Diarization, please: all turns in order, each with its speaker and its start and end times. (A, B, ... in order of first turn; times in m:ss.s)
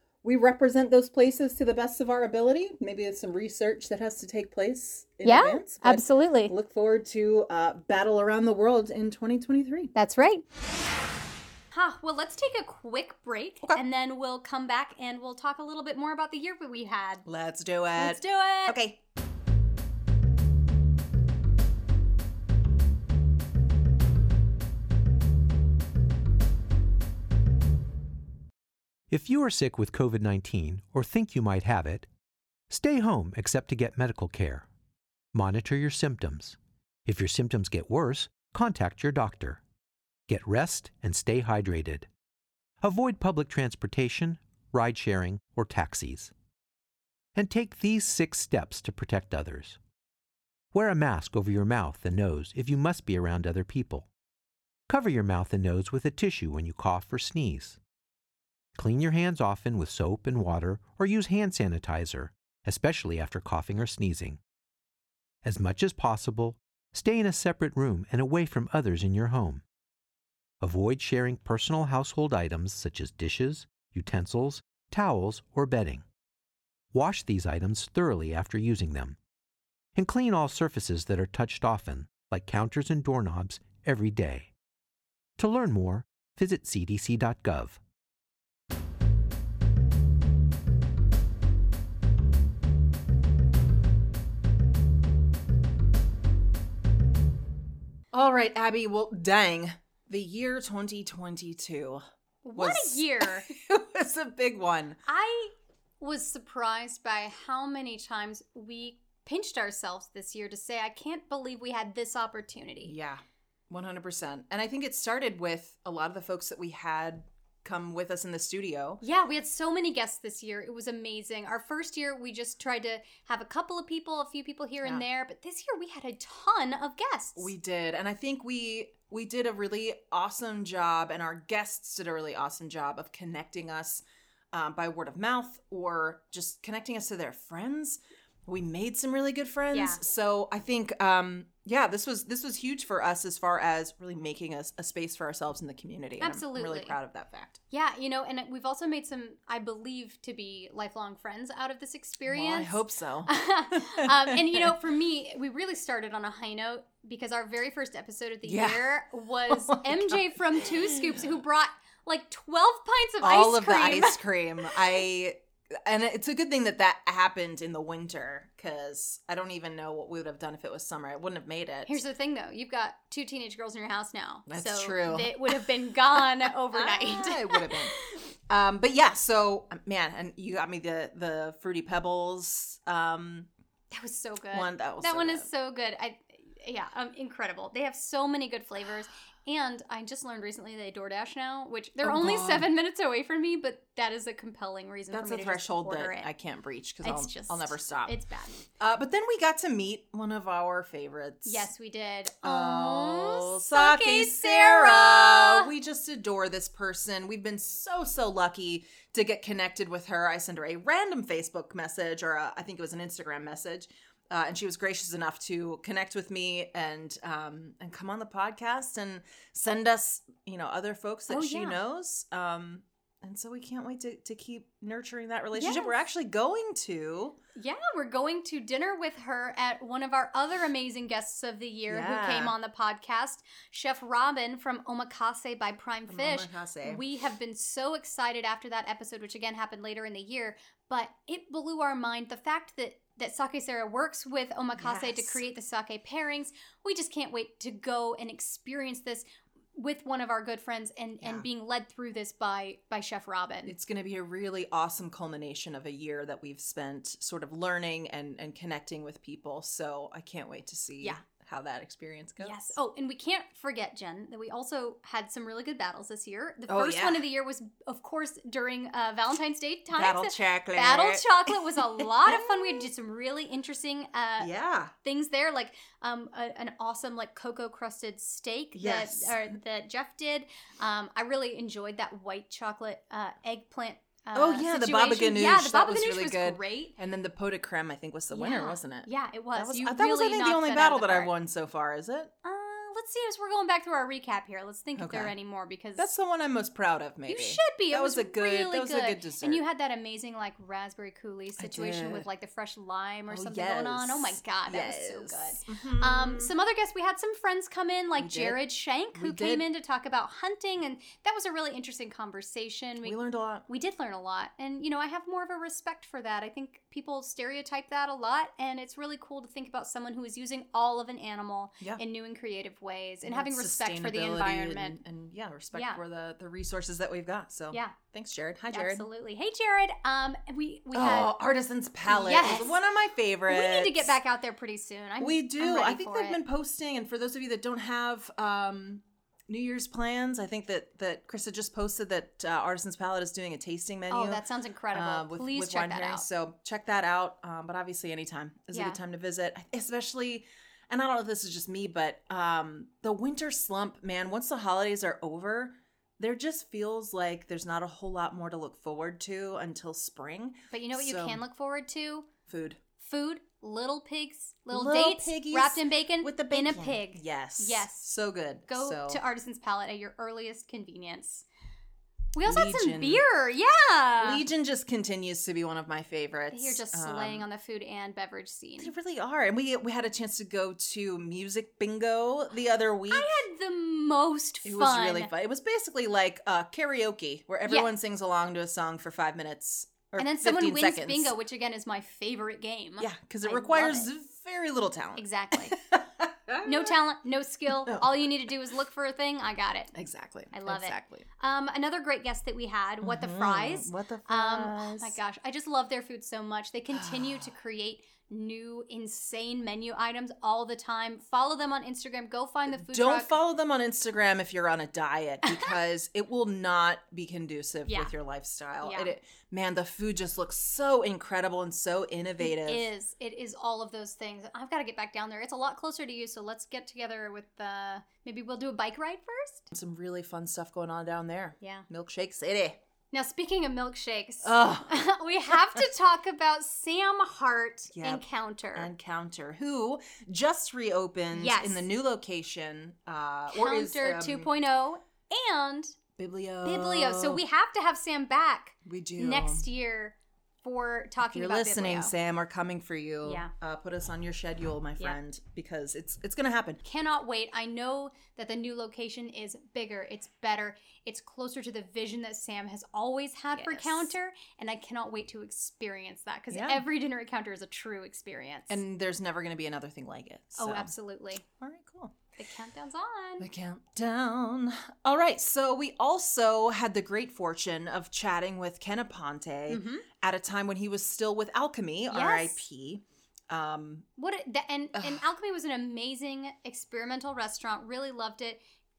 0:00.2-0:09.9 A
0:05.2-0:06.5 B
0:10.0-0:10.4 B
0:11.7-0:17.3 B
0:17.2-0:19.0 A
0:18.0-0:18.8 B
0:29.1-0:32.1 C
0:32.7-0:34.7 C
0:35.3-0:39.6 C
0:40.3-0:42.1 C
0:42.8-0:46.3 C
0:47.4-0:49.8 C
0:50.7-0:54.1 C
0:54.9-0:57.8 C
0:58.8-1:04.4 C
1:05.4-1:09.6 C
1:10.6-1:16.0 C
1:16.9-1:19.2 C
1:20.0-1:24.5 C
1:25.4-1:27.8 C
1:38.1-1:42.0 A
1:42.4-1:43.5 B
1:42.6-1:45.0 A
1:45.1-1:52.9 B
1:52.8-1:59.0 A
1:59.0-2:07.5 B
2:07.4-2:27.6 A
2:19.7-2:20.0 B
2:26.2-2:27.0 B
2:27.7-2:44.8 B
2:32.2-2:34.8 A
2:38.4-2:38.9 A
2:39.5-2:41.3 A
2:43.2-2:52.0 A
2:51.9-2:58.2 B
2:54.5-2:58.0 A
2:58.5-3:03.5 A
3:03.9-3:16.3 B
3:04.5-3:05.5 A
3:12.0-3:12.7 A
3:15.1-3:18.2 A
3:17.0-3:18.6 B
3:18.8-3:21.7 A
3:21.4-3:25.7 B
3:22.4-3:47.4 A
3:41.3-3:41.8 B
3:45.5-3:46.0 B
3:47.6-4:13.7 B
3:51.9-3:52.6 A
3:56.1-3:57.0 A
4:04.8-4:05.4 A
4:13.7-4:22.8 A
4:22.4-4:34.5 B
4:26.7-4:27.3 A
4:29.9-4:32.9 A
4:34.4-4:34.9 A
4:35.0-4:47.0 B
4:38.7-4:39.4 A
4:44.3-4:52.3 A
4:48.3-4:51.3 B
4:52.4-4:56.1 B
4:55.0-4:55.3 A
4:56.0-4:59.6 A
4:57.3-5:13.2 B
5:01.6-5:02.3 A
5:03.3-5:06.5 A
5:08.2-5:08.6 A
5:09.1-5:09.6 A
5:13.0-5:13.7 A
5:13.7-5:25.0 B
5:23.2-5:29.1 A
5:25.7-5:26.0 B
5:27.7-5:28.0 B
5:28.7-5:31.3 B
5:30.9-5:34.1 A
5:32.0-5:32.8 B
5:33.5-5:36.4 B
5:35.2-6:01.4 A
5:44.1-5:46.2 B
5:48.7-5:49.0 B
6:00.7-6:02.3 B
6:02.5-6:02.8 A
6:03.0-6:08.1 B
6:04.7-6:09.2 A
6:08.7-6:11.5 B
6:12.4-6:14.4 B
6:12.4-6:13.2 A
6:14.2-6:17.5 A
6:16.5-6:18.9 B
6:18.8-6:23.3 A
6:23.1-6:25.3 B
6:24.6-6:31.3 A
6:30.2-6:34.1 B
6:33.0-6:37.0 A
6:35.2-6:35.8 B
6:36.6-6:39.9 B
6:37.7-6:38.3 A
6:39.9-6:41.3 A
6:40.5-6:53.3 B
6:43.0-6:45.2 A
6:46.9-6:47.5 A
6:52.7-7:02.9 A
6:55.4-6:55.7 B
6:57.9-6:58.1 B
6:58.8-6:59.1 B
7:02.4-7:09.7 B
7:09.7-7:12.8 A
7:11.6-7:11.9 B
7:13.1-7:18.9 B
7:14.4-7:15.0 A
7:15.5-7:15.8 A
7:17.9-7:18.2 A
7:18.8-7:24.5 A
7:21.3-7:21.8 B
7:23.5-7:26.0 B
7:26.2-7:27.4 A
7:26.6-7:32.1 B
7:28.8-7:29.7 A
7:31.3-7:36.8 A
7:33.2-7:33.5 B
7:36.8-7:48.8 B
7:43.5-7:44.1 A
7:46.5-7:46.8 A
7:48.7-7:50.9 A
7:50.6-7:51.4 B
7:51.5-7:52.2 A
7:52.4-7:53.5 B
7:53.4-8:04.1 A
7:59.7-8:00.1 B
8:02.1-8:02.6 B
8:04.2-8:08.6 B
8:05.0-8:05.2 A